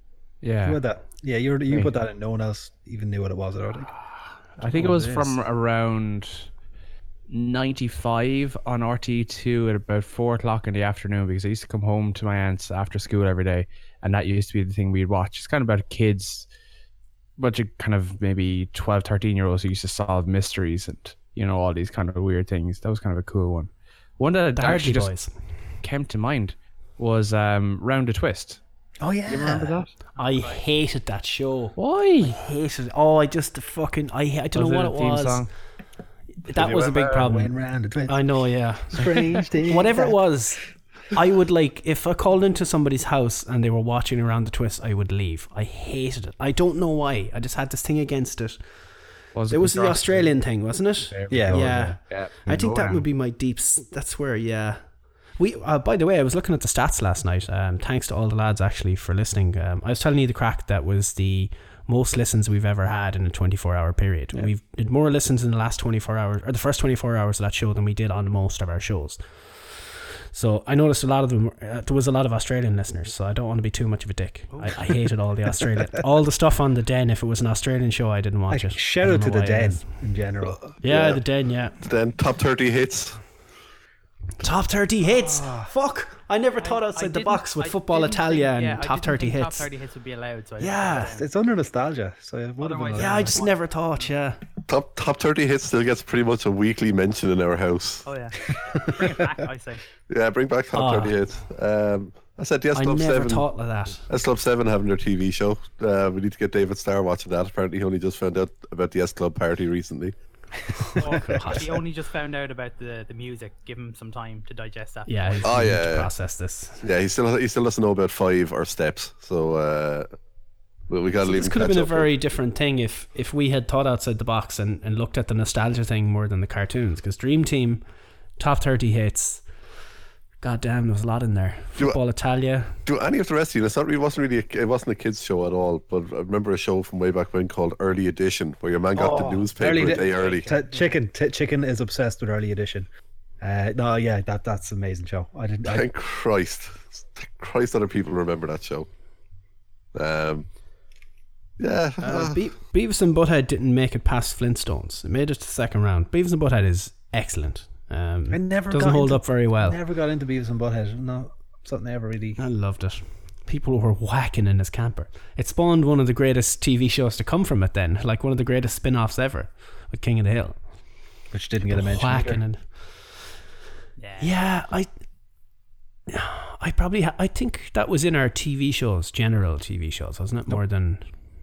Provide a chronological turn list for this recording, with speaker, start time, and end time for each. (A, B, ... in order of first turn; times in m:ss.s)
0:00.4-0:00.8 A
0:00.6-0:03.9 B
0:04.6-0:06.5 A
0:04.6-0:05.4 B
0:07.3-0:16.5 A
0:17.4-0:25.2 A
0:24.6-0:25.3 C
0:25.8-0:28.6 A
0:29.0-0:29.9 B
0:29.3-0:29.9 A
0:30.2-0:30.6 D
0:30.2-0:35.5 C
0:31.8-0:32.4 A
0:34.6-0:35.5 A
0:36.4-0:37.5 C
0:36.6-0:40.2 B
0:38.1-0:48.6 C
0:49.3-0:50.4 A
0:49.5-0:54.8 C
0:51.1-0:53.0 A
0:51.3-0:52.0 B
0:55.4-1:09.7 C
1:10.3-1:19.9 C
1:14.6-1:15.0 B
1:18.5-1:20.6 B
1:20.8-1:21.8 C
1:20.8-1:21.2 E
1:21.8-1:23.2 E
1:24.4-1:29.7 C
1:25.0-1:25.7 B
1:26.6-1:31.3 D
1:30.6-1:31.1 C
1:30.9-1:33.5 B
1:32.6-1:33.5 D
1:33.0-1:34.4 C
1:34.7-1:38.1 E
1:38.0-1:39.8 D
1:38.5-1:39.2 B
1:40.1-1:43.5 E
1:40.7-1:41.1 C
1:42.7-1:44.1 C
1:44.1-1:50.2 E
1:50.8-1:51.8 C
1:51.0-1:55.6 D
1:51.1-1:51.4 B
1:55.1-1:56.8 C
1:55.4-1:56.1 E
1:56.8-2:00.1 E
2:00.9-2:02.1 E
2:01.2-2:07.8 C
2:08.4-2:09.4 C
2:10.4-2:12.8 C
2:12.9-2:20.5 E
2:18.9-2:22.9 B
2:20.0-2:21.0 D
2:23.4-2:25.9 B
2:25.7-2:28.9 E
2:29.9-2:30.5 E
2:31.6-2:32.4 E
2:32.0-2:39.8 C
2:38.3-2:42.4 B
2:42.4-2:50.6 C
2:51.3-2:52.4 B
2:51.7-2:53.0 C
2:54.0-2:54.4 D
2:54.2-2:54.9 C
2:56.1-3:01.0 C